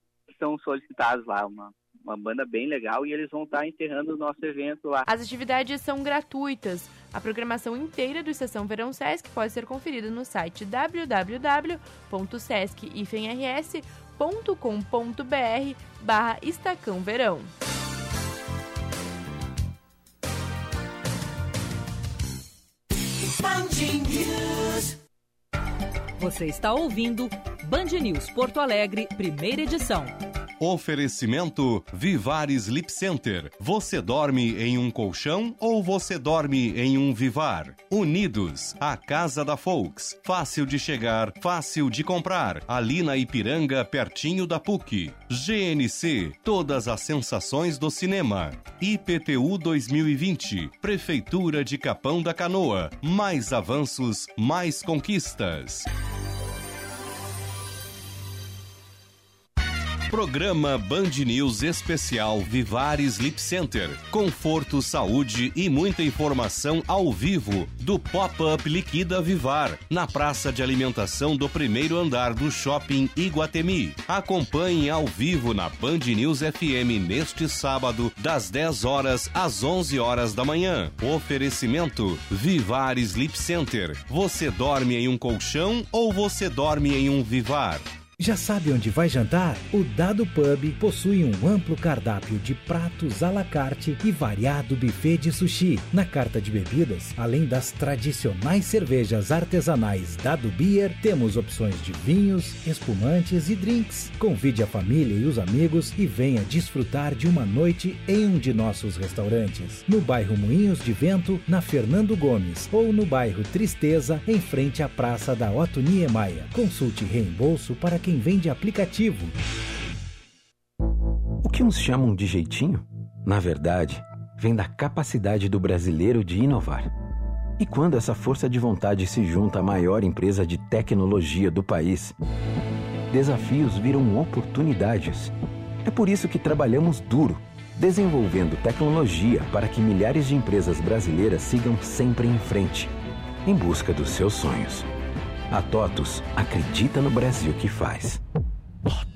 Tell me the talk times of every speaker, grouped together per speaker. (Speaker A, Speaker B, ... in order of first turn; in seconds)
Speaker A: 0.4-5.0
Speaker B: 5.0-17.5
Speaker C: 26.2-30.1
Speaker D: 30.6-55.9, 60.1-87.8
Speaker E: 88.2-119.3
Speaker F: 121.4-126.9, 127.6-132.2, 133.1-135.3, 135.8-142.9, 143.4-144.9, 145.5-148.2